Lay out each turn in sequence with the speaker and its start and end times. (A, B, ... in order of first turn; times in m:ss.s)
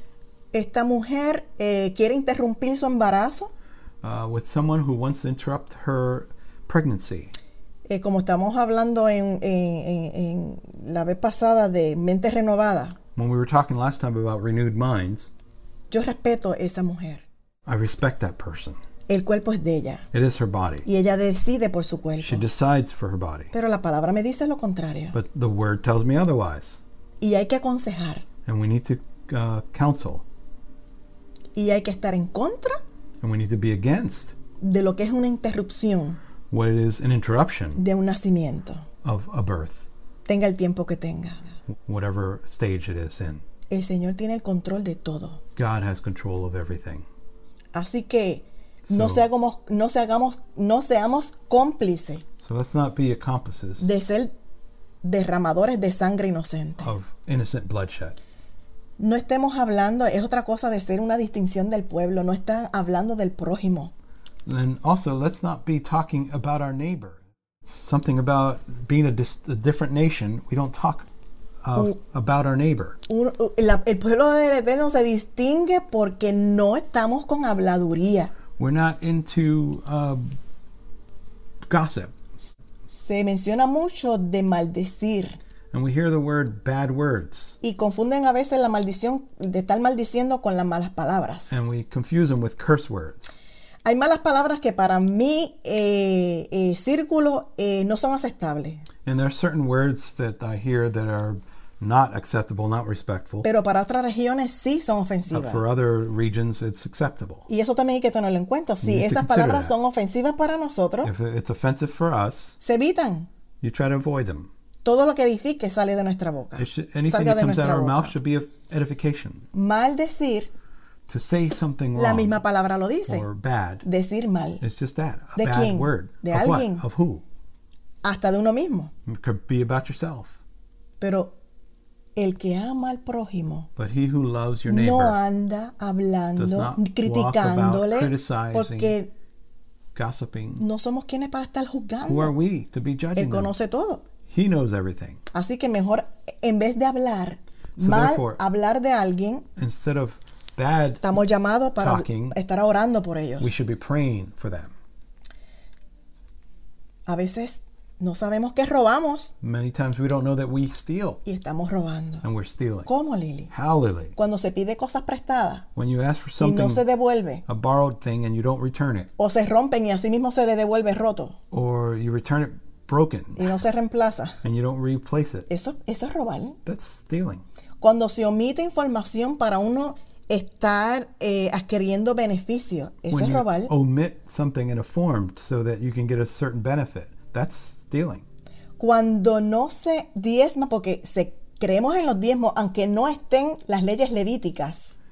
0:00.5-0:03.5 A
0:04.0-0:07.3 B
0:07.9-0:13.0 A
0:13.2-0:15.3 B
0:15.9-0:17.2 A
0:17.7-0:18.8 B
0:19.1-0:20.1 A
0:20.1-0:20.9 B
0:20.8-0:22.5 A
0:22.2-0:23.5 B
0:23.5-0:25.2 A
0:25.1-0:26.8 B
0:27.2-0:28.3 A
0:28.5-0:30.2 B
0:31.6-0:32.8 A
0:33.2-0:34.4 B
0:34.6-0:36.2 A
0:36.5-0:37.8 B
0:37.8-0:38.9 A
0:39.0-0:39.9 B
0:40.3-0:41.4 A
0:41.8-0:43.4 B
0:43.7-0:45.4 A
0:45.6-0:47.1 B
0:47.7-0:52.2 A
0:48.9-0:49.3 B
0:52.4-0:53.9 B
0:53.8-0:54.3 A
0:55.0-0:56.9 A
0:56.8-0:58.2 B
0:59.0-1:03.9 A
1:04.5-1:11.1 B
1:11.6-1:13.0 B
1:13.1-1:18.3 A
1:18.6-1:20.3 B
1:21.7-1:22.1 B
1:22.9-1:25.4 A
1:25.7-1:27.6 B
1:27.6-1:31.6 A
1:31.5-1:33.4 B
1:33.8-1:38.8 A
1:39.0-1:43.5 B
1:43.4-1:45.6 A
1:45.3-1:47.5 B
1:47.5-1:51.1 A
1:48.8-1:49.7 B
1:51.0-1:52.6 B
1:52.6-1:53.3 A
1:53.6-1:54.5 B
1:54.8-1:58.1 A
1:56.6-1:59.5 B
1:59.5-2:00.5 A
2:01.1-2:02.4 B
2:02.0-2:03.3 A
2:03.1-2:03.9 B
2:03.8-2:04.6 A
2:04.6-2:07.2 B
2:05.4-2:06.8 A
2:08.0-2:08.9 A
2:09.1-2:10.4 B
2:11.0-2:11.3 A
2:12.2-2:13.7 A
2:13.8-2:15.2 B
2:14.7-2:19.1 A
2:16.4-2:19.0 B
2:19.9-2:20.6 B
2:20.6-2:22.3 A
2:22.1-2:23.5 B
2:23.2-2:24.0 A
2:24.3-2:25.2 B
2:25.3-2:29.5 A
2:27.8-2:28.4 B
2:29.6-2:31.1 B
2:31.0-2:33.5 A
2:31.8-2:32.4 B
2:33.4-2:34.7 B
2:37.1-2:39.3 A
2:39.4-2:41.2 B
2:41.2-2:42.3 A
2:42.2-2:42.9 B
2:42.9-2:43.5 A
2:43.5-2:44.2 B
2:44.2-2:45.7 A
2:45.8-2:46.8 B
2:46.4-2:47.4 A
2:47.5-2:49.1 B
2:49.2-2:51.4 A
2:51.5-2:53.6 B
2:53.4-2:54.4 A
2:54.4-2:55.5 B
2:55.5-2:56.6 A
2:56.7-2:57.4 B
2:57.8-3:03.7 A
3:03.1-3:08.2 B
3:08.8-3:15.0 A